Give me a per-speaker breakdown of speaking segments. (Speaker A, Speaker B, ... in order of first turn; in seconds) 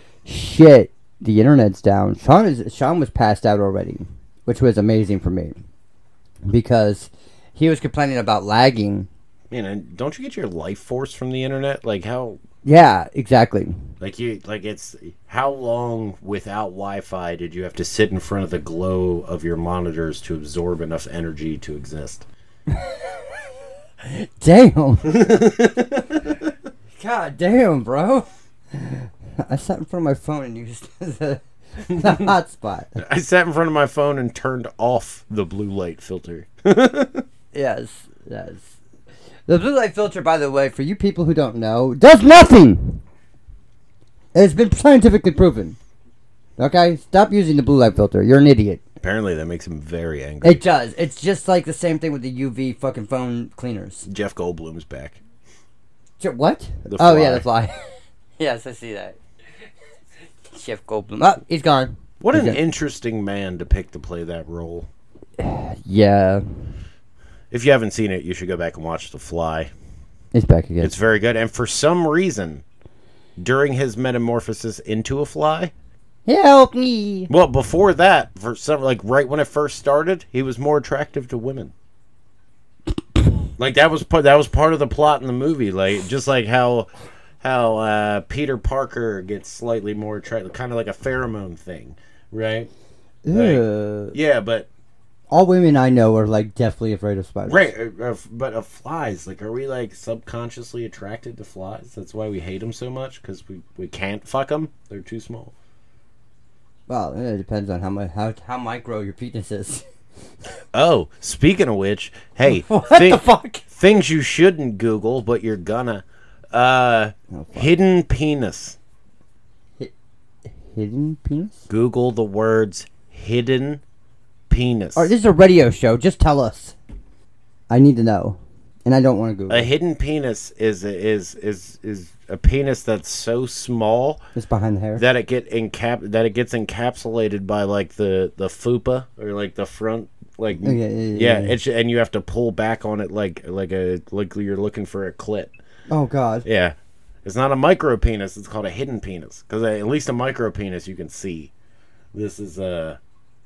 Speaker A: 0.2-5.5, 6.5-9.1, 12.6-13.8, 22.7-23.3, 24.0-25.3, 27.0-32.9, 37.5-38.7, 39.5-43.0, 44.3-45.8, 46.6-48.8, 50.4-54.1, 56.2-57.8, 58.4-59.2, 60.5-62.6, 65.4-66.4, 70.3-70.9, 76.2-77.3, 93.2-94.2, 95.3-97.7, 106.9-109.8, 112.4-113.6, 117.3-117.7, 120.6-121.6, 124.9-126.7, 127.7-129.7, 134.3-135.0, 140.6-141.5, 145.9-146.4
Speaker B: 9.5-12.4, 14.0-22.2, 25.1-26.5, 32.0-32.3, 33.0-37.2, 49.0-50.6, 54.0-55.2, 56.9-57.4, 62.2-64.9, 67.5-69.7, 70.8-72.6, 73.4-75.7, 77.3-81.7, 83.6-86.9, 87.4-92.7, 93.3-94.7, 97.5-105.5, 110.7-118.8, 121.7-123.8, 124.5-125.1, 129.5-134.2, 135.0-145.5, 146.4-151.5, 152.1-153.0